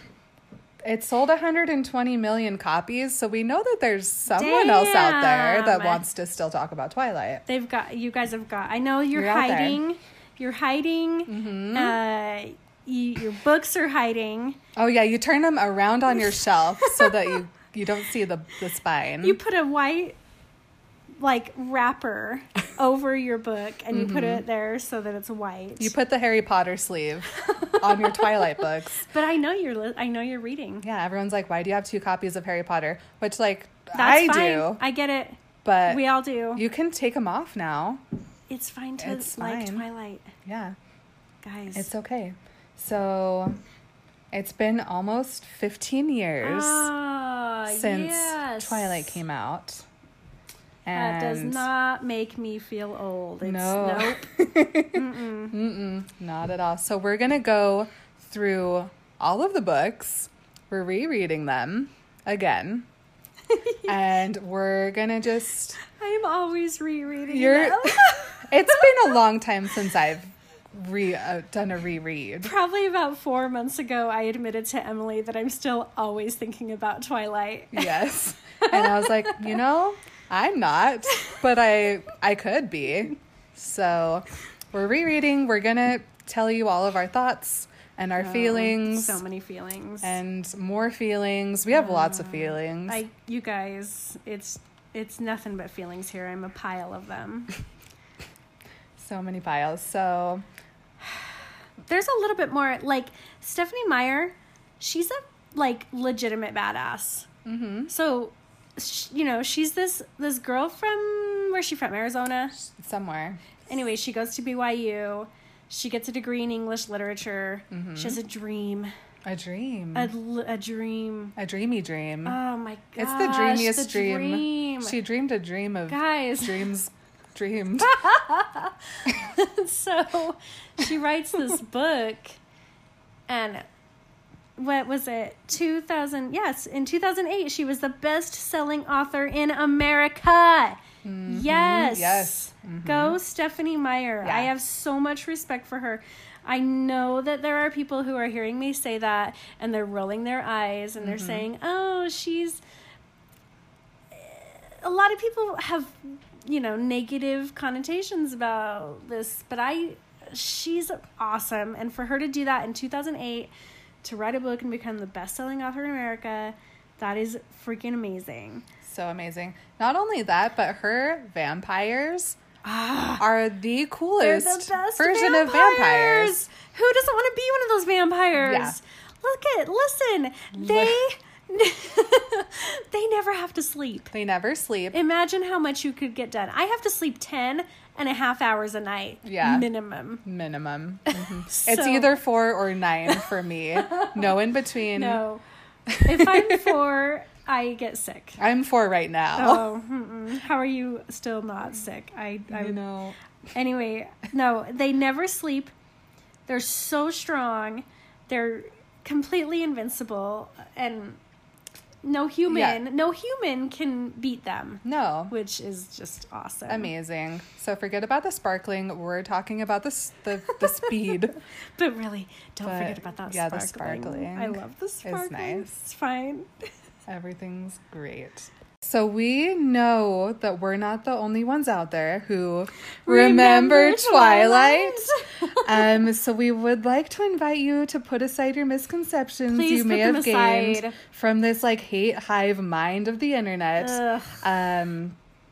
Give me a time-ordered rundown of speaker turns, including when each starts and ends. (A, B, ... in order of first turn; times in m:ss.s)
0:00.8-0:07.4 A
0:04.3-0:06.0 B
0:07.5-0:14.6 B
0:09.1-0:09.8 A
0:11.3-0:12.0 A
0:14.8-0:19.4 A
0:16.8-0:17.1 B
0:19.2-0:20.2 B
0:21.2-0:25.9 B
0:23.9-0:24.4 A
0:25.8-0:29.1 A
0:27.4-0:30.8 B
0:30.8-0:34.8 A
0:33.9-0:36.6 B
0:35.6-0:38.0 A
0:38.5-0:40.3 B
0:39.0-0:39.8 A
0:40.4-0:40.7 A
0:41.4-0:41.9 B
0:41.7-0:43.6 A
0:44.3-0:46.9 A
0:46.4-0:49.2 B
0:47.7-0:49.8 A
0:50.8-0:51.7 A
0:50.9-0:54.2 B
0:53.4-1:02.9 A
0:54.9-0:55.5 B
1:03.5-1:03.8 B
1:03.8-1:05.8 A
1:05.8-1:09.1 B
1:07.3-1:12.5 A
1:12.4-1:18.0 B
1:17.7-1:29.2 A
1:18.6-1:19.4 B
1:28.2-1:30.2 B
1:30.0-1:33.0 A
1:31.7-1:37.5 B
1:39.0-1:40.4 A
1:41.9-1:47.3 B
1:47.4-1:47.9 A
1:47.9-1:52.6 B
1:52.7-1:53.4 A
1:53.7-1:58.9 B
1:57.7-1:58.2 A
1:59.2-2:00.1 A
1:59.9-2:01.3 B
2:01.4-2:02.4 A
2:02.2-2:05.0 B
2:03.0-2:07.9 A
2:05.9-2:06.7 B
2:07.8-2:12.4 B
2:13.3-2:13.6 B
2:14.6-2:32.6 B
2:21.0-2:23.2 A
2:24.2-2:24.5 A
2:31.0-2:31.5 A
2:34.1-2:43.5 B
2:44.0-2:48.6 B
2:48.8-2:52.4 A
2:52.6-2:53.2 B
2:53.2-2:56.4 A
2:54.2-3:04.1 B
2:58.3-2:58.8 A
3:00.5-3:01.0 A
3:04.1-3:05.0 A
3:04.9-3:10.2 B
3:09.2-3:09.7 A
3:10.2-3:15.2 A
3:11.1-3:12.1 B
3:13.1-3:13.3 B
3:13.8-3:14.4 B
3:14.9-3:15.4 B
3:15.9-3:16.8 A
3:16.0-3:18.4 B
3:18.4-3:19.7 A
3:19.3-3:22.8 B
3:22.5-3:23.2 A
3:23.5-3:25.7 B
3:26.5-3:31.2 B
3:32.0-3:36.9 B
3:32.5-3:32.8 A
3:34.8-3:35.3 A
3:36.7-3:41.4 A
3:40.5-3:40.9 B
3:41.8-3:46.5 B
3:42.6-3:45.8 A
3:47.1-4:05.2 A
3:53.0-3:56.0 B
3:59.5-4:01.0 B
4:03.8-4:04.4 B